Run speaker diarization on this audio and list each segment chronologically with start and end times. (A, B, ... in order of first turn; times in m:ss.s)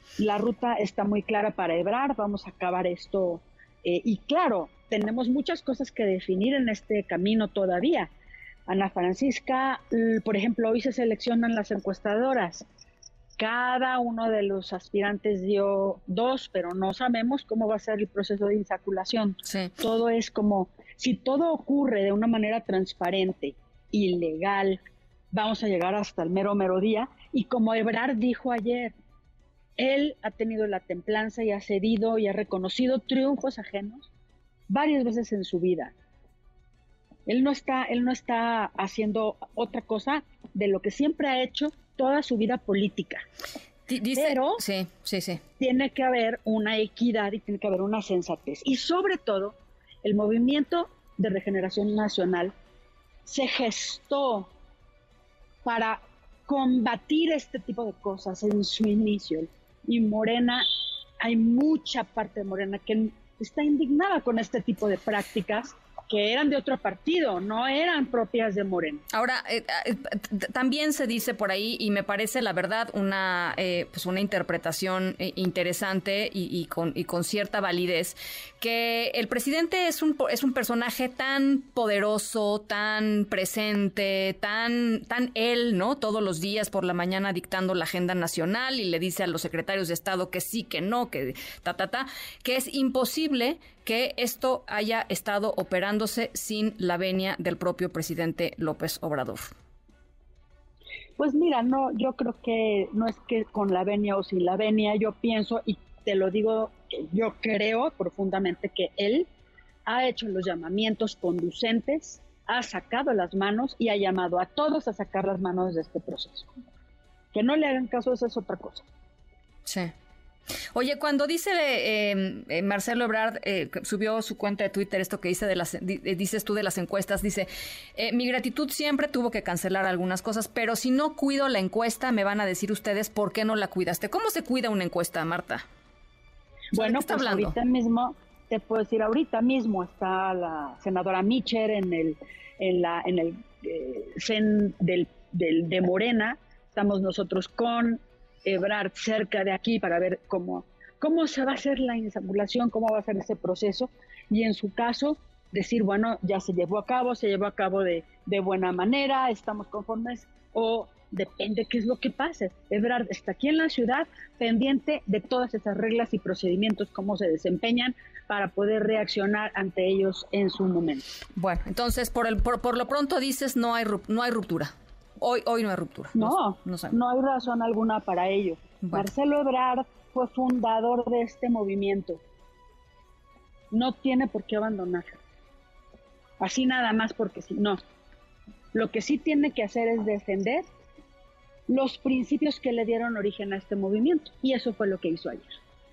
0:00.2-0:08.1 A
0:08.7-0:12.7 A
0:13.4-0:28.9 A
0:19.4-0:19.7 B
0:29.8-0:34.1 A
0:34.7-0:35.9 A
0:37.3-0:43.2 A
0:43.9-0:45.4 B
0:44.1-0:44.6 A
0:45.6-0:52.5 A
0:53.2-0:54.5 A
0:55.6-1:00.6 A
1:01.2-1:09.0 A
1:09.1-1:39.5 B
1:41.2-1:49.3 A
1:49.9-1:56.5 A
1:57.3-1:58.9 A
1:59.6-1:59.9 B
2:00.7-2:15.6 B
2:16.7-2:51.0 A
2:16.7-2:17.6 B
2:51.4-2:57.0 B
2:56.2-3:02.2 A
2:58.8-2:59.1 B
3:03.7-3:05.2 A
3:06.4-3:07.8 A
3:08.7-3:10.7 A
3:11.7-3:15.6 A